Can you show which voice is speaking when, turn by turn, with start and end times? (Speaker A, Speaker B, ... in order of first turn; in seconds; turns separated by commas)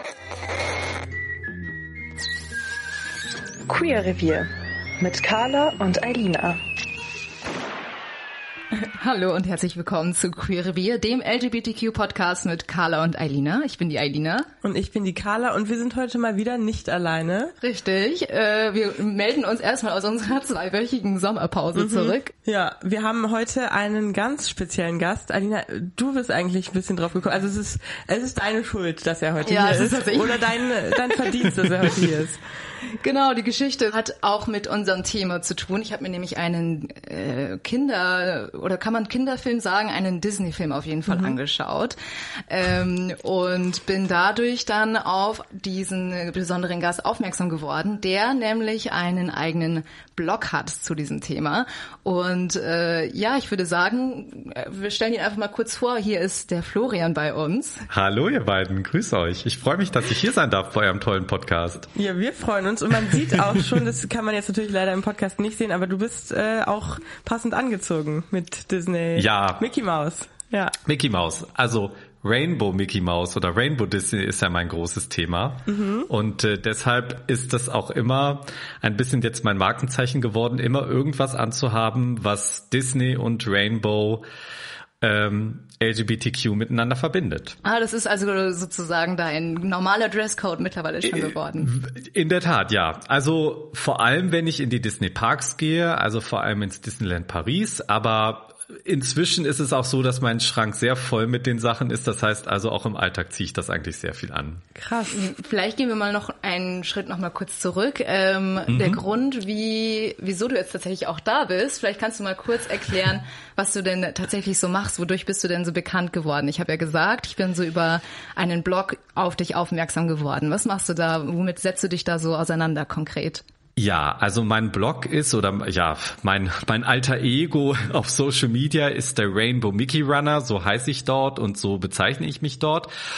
Speaker A: 3.7-4.5, Speaker A: 5.0-6.6, Speaker B: 8.9-14.5, Speaker C: 14.6-17.6, Speaker B: 17.6-22.3, Speaker C: 21.8-32.4, Speaker B: 29.4-30.9, Speaker B: 33.0-42.0, Speaker C: 41.1-41.4, Speaker B: 42.5-57.9, Speaker D: 57.9-61.9, Speaker C: 62.0-70.8, Speaker D: 63.1-63.6, Speaker D: 69.2-69.6, Speaker D: 70.8-84.2, Speaker C: 75.7-76.1, Speaker D: 85.0-87.6, Speaker B: 87.6-91.7, Speaker D: 91.2-104.6, Speaker C: 104.8-105.3, Speaker B: 105.1-123.4, Speaker D: 108.7-109.0, Speaker D: 123.8-132.9